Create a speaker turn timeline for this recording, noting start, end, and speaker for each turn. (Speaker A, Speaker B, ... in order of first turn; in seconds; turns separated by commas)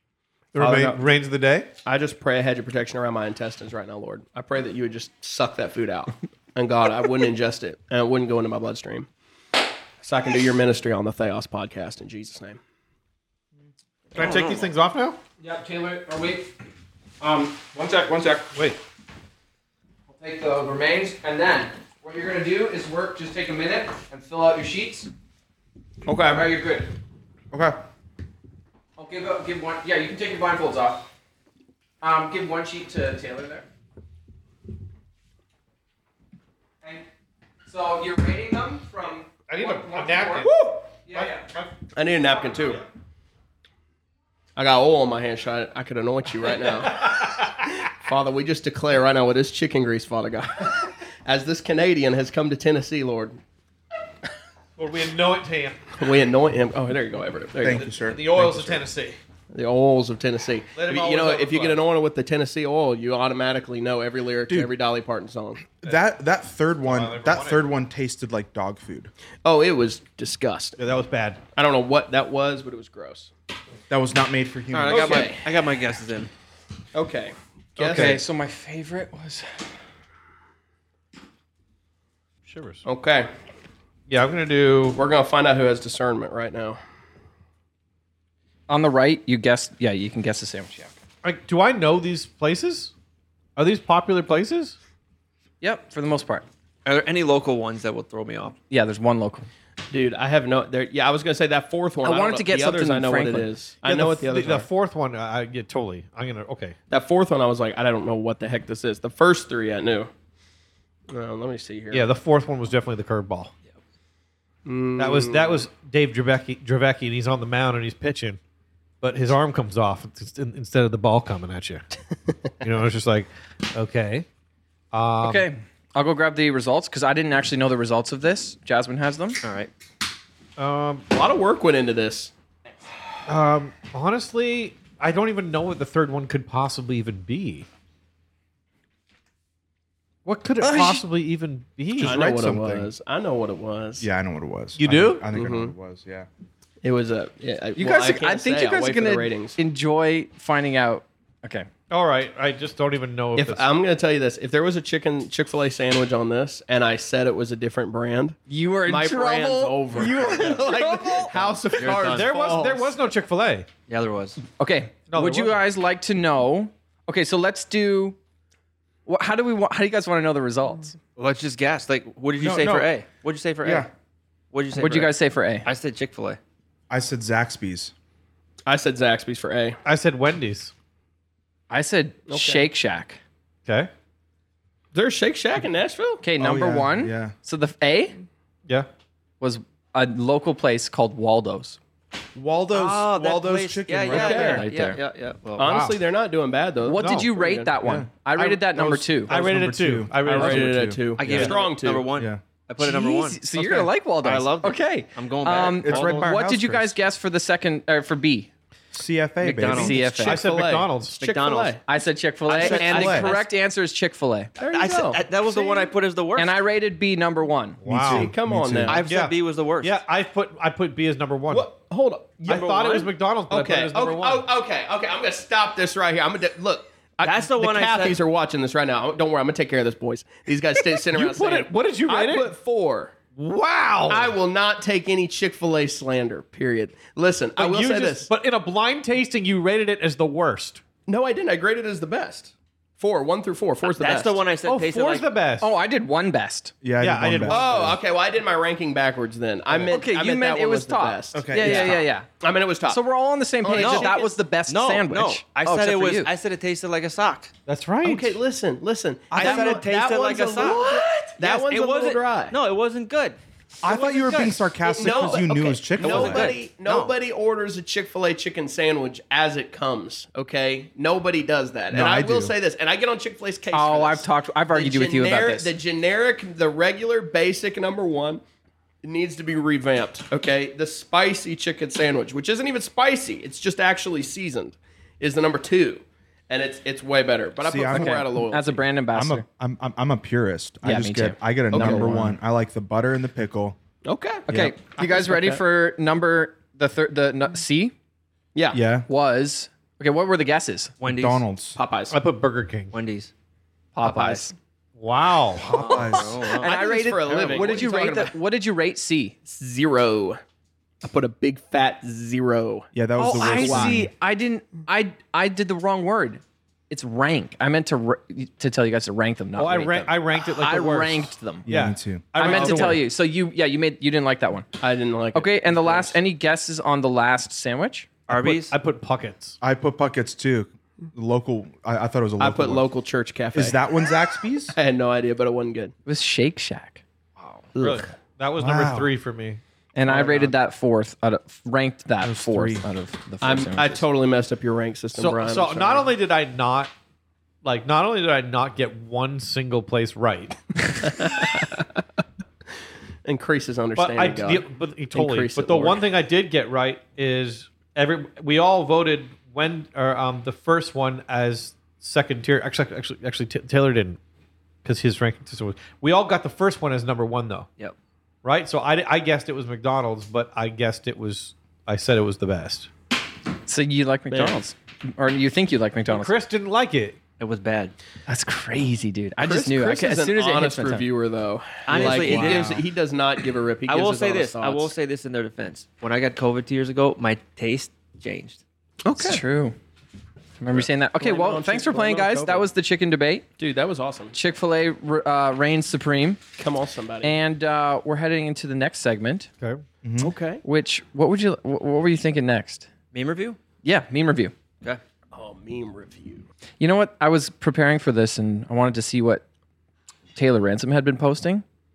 Speaker A: 0.5-1.7, Speaker B: 0.6-1.0, Speaker B: 1.8-9.1, Speaker B: 10.0-12.6, Speaker A: 14.1-15.2, Speaker C: 14.2-14.6, Speaker D: 15.4-16.5, Speaker D: 17.2-18.4, Speaker D: 20.1-25.1, Speaker B: 26.1-26.5, Speaker D: 26.2-26.9, Speaker E: 27.5-27.8, Speaker D: 29.0-31.1, Speaker D: 32.0-33.6, Speaker D: 37.6-40.5, Speaker A: 39.5-41.7, Speaker D: 41.1-41.5, Speaker B: 41.9-42.8, Speaker B: 44.5-47.4, Speaker A: 46.6-47.5, Speaker B: 47.9-53.4, Speaker A: 54.8-55.8, Speaker B: 56.0-57.9, Speaker E: 57.6-58.9, Speaker A: 57.7-59.2, Speaker B: 59.5-65.7, Speaker A: 60.7-61.8, Speaker E: 65.8-69.1, Speaker A: 66.8-67.6, Speaker B: 69.4-70.8, Speaker A: 70.8-71.4, Speaker B: 71.5-73.3, Speaker E: 73.9-75.3, Speaker C: 74.7-76.3, Speaker B: 74.9-75.4, Speaker B: 76.9-78.2, Speaker A: 77.8-78.2, Speaker D: 77.8-79.5, Speaker A: 82.5-82.8, Speaker B: 82.8-83.3, Speaker A: 84.1-85.0, Speaker B: 84.9-86.8, Speaker D: 88.7-90.9, Speaker A: 91.2-92.9, Speaker A: 93.5-94.8, Speaker D: 95.6-96.4, Speaker C: 96.8-98.5, Speaker D: 98.7-99.5, Speaker B: 99.9-104.7, Speaker D: 102.0-103.5, Speaker A: 103.8-106.8, Speaker B: 106.9-110.1, Speaker B: 111.1-112.0, Speaker A: 111.9-113.5, Speaker B: 114.7-115.6, Speaker A: 115.0-118.4, Speaker A: 119.0-121.8, Speaker A: 122.6-124.2, Speaker A: 124.9-125.5, Speaker D: 125.2-129.4, Speaker C: 129.4-129.7, Speaker A: 130.6-131.1, Speaker B: 131.1-132.3, Speaker A: 133.3-137.7, Speaker A: 140.2-142.3, Speaker D: 140.6-141.0, Speaker E: 142.0-142.9, Speaker B: 142.0-144.1, Speaker E: 144.0-146.3, Speaker A: 144.8-145.3, Speaker B: 145.3-145.7, Speaker B: 146.8-149.6, Speaker D: 147.8-151.7, Speaker A: 151.9-153.7, Speaker B: 153.3-162.9, Speaker D: 158.5-161.3, Speaker C: 161.8-162.3, Speaker A: 161.9-163.7, Speaker C: 163.9-164.4, Speaker D: 164.6-168.2, Speaker A: 165.1-165.6, Speaker D: 169.1-171.0, Speaker C: 171.2-173.9, Speaker E: 172.4-172.9, Speaker E: 173.6-173.9, Speaker C: 174.5-176.4, Speaker D: 174.8-175.7, Speaker E: 176.9-177.9, Speaker B: 178.7-179.8, Speaker A: 179.8-180.7, Speaker D: 181.7-183.2, Speaker B: 182.3-182.7, Speaker B: 184.9-186.2, Speaker D: 186.2-188.2, Speaker E: 186.4-187.3, Speaker D: 189.4-191.8, Speaker E: 192.3-194.7, Speaker C: 192.7-195.7, Speaker B: 194.1-194.7, Speaker D: 194.2-195.0, Speaker B: 195.6-197.7, Speaker A: 195.6-195.9, Speaker D: 196.8-199.3, Speaker A: 196.9-197.3, Speaker E: 197.8-201.5, Speaker A: 199.3-201.5, Speaker B: 200.2-202.1, Speaker C: 201.2-206.3, Speaker E: 202.1-202.4, Speaker D: 202.8-208.5, Speaker E: 205.8-207.0, Speaker E: 208.9-210.0, Speaker C: 209.4-210.2, Speaker D: 209.7-210.4, Speaker A: 210.1-211.2, Speaker B: 210.2-211.8, Speaker C: 211.2-211.8, Speaker D: 211.9-214.5, Speaker C: 212.5-213.4, Speaker E: 212.6-213.3, Speaker B: 214.6-215.8, Speaker C: 214.6-216.5, Speaker D: 216.3-217.8, Speaker A: 217.8-218.3, Speaker E: 217.8-219.0, Speaker B: 218.1-219.0, Speaker C: 218.9-220.0, Speaker A: 218.9-221.8, Speaker B: 221.5-233.1, Speaker A: 222.4-224.5, Speaker C: 227.2-228.2, Speaker A: 230.9-232.5, Speaker A: 233.3-234.3, Speaker B: 234.1-238.3, Speaker A: 237.6-240.8, Speaker B: 241.1-244.4, Speaker C: 243.8-245.2, Speaker A: 244.6-245.7, Speaker D: 245.6-246.7, Speaker E: 246.8-248.0, Speaker A: 247.0-247.9, Speaker B: 247.5-253.0, Speaker D: 249.9-252.3, Speaker E: 251.3-252.1, Speaker D: 252.9-256.3, Speaker B: 253.6-254.3, Speaker C: 253.8-257.5, Speaker A: 257.6-258.4, Speaker B: 258.0-262.6, Speaker C: 259.3-267.1, Speaker E: 263.8-266.6, Speaker B: 264.8-278.4, Speaker E: 271.9-272.5, Speaker D: 273.7-275.7, Speaker B: 279.0-288.8, Speaker E: 287.6-288.2, Speaker D: 287.9-289.4, Speaker E: 289.1-293.8, Speaker D: 290.8-292.3, Speaker B: 291.7-292.1, Speaker B: 294.0-294.5, Speaker D: 294.5-297.9, Speaker E: 294.5-294.8, Speaker B: 298.5-298.8, Speaker E: 298.7-299.1, Speaker D: 299.1-300.9, Speaker C: 301.0-301.4, Speaker E: 301.0-301.8, Speaker B: 301.8-302.1, Speaker A: 302.1-302.9, Speaker C: 302.9-303.3, Speaker D: 303.9-304.5, Speaker C: 304.0-304.4, Speaker A: 305.0-305.8, Speaker E: 305.6-306.4, Speaker C: 305.8-306.8, Speaker B: 305.9-308.4, Speaker D: 306.6-309.3, Speaker C: 307.4-307.8, Speaker B: 309.4-310.4, Speaker B: 311.0-312.9, Speaker E: 312.9-314.1, Speaker D: 313.2-321.7, Speaker B: 313.4-314.0, Speaker A: 319.6-323.0, Speaker E: 321.7-323.0, Speaker D: 322.3-324.7, Speaker B: 324.8-326.1, Speaker D: 325.3-328.1, Speaker C: 328.3-328.7, Speaker A: 328.3-329.6, Speaker E: 329.6-332.9, Speaker B: 332.4-333.8, Speaker E: 333.5-334.8, Speaker B: 334.7-335.9, Speaker D: 336.1-337.0, Speaker C: 337.4-337.7, Speaker B: 337.7-338.1, Speaker A: 337.8-339.6, Speaker E: 338.6-339.1, Speaker D: 339.9-344.0, Speaker A: 340.1-340.5, Speaker E: 342.2-342.9, Speaker B: 343.4-346.1, Speaker A: 345.1-346.9, Speaker A: 347.6-351.2, Speaker B: 351.2-351.6, Speaker B: 353.2-356.0, Speaker A: 353.9-364.2, Speaker A: 364.8-367.7, Speaker A: 368.4-372.9, Speaker D: 373.6-376.3, Speaker B: 374.3-374.6, Speaker A: 376.1-377.2, Speaker C: 377.4-377.9, Speaker D: 378.3-381.1, Speaker B: 379.4-384.9, Speaker C: 381.9-382.8, Speaker A: 382.0-382.6, Speaker D: 382.2-382.6, Speaker C: 383.9-388.6, Speaker B: 389.0-389.4, Speaker D: 389.2-389.7, Speaker D: 390.6-393.4, Speaker B: 391.2-392.7, Speaker B: 393.6-394.3, Speaker D: 394.3-396.4, Speaker B: 396.6-397.3, Speaker D: 397.2-399.5, Speaker E: 400.0-400.3, Speaker B: 400.2-400.6, Speaker D: 400.6-402.9, Speaker C: 403.1-403.6, Speaker D: 403.8-404.5, Speaker B: 405.3-406.5, Speaker D: 406.8-409.4, Speaker D: 410.3-411.6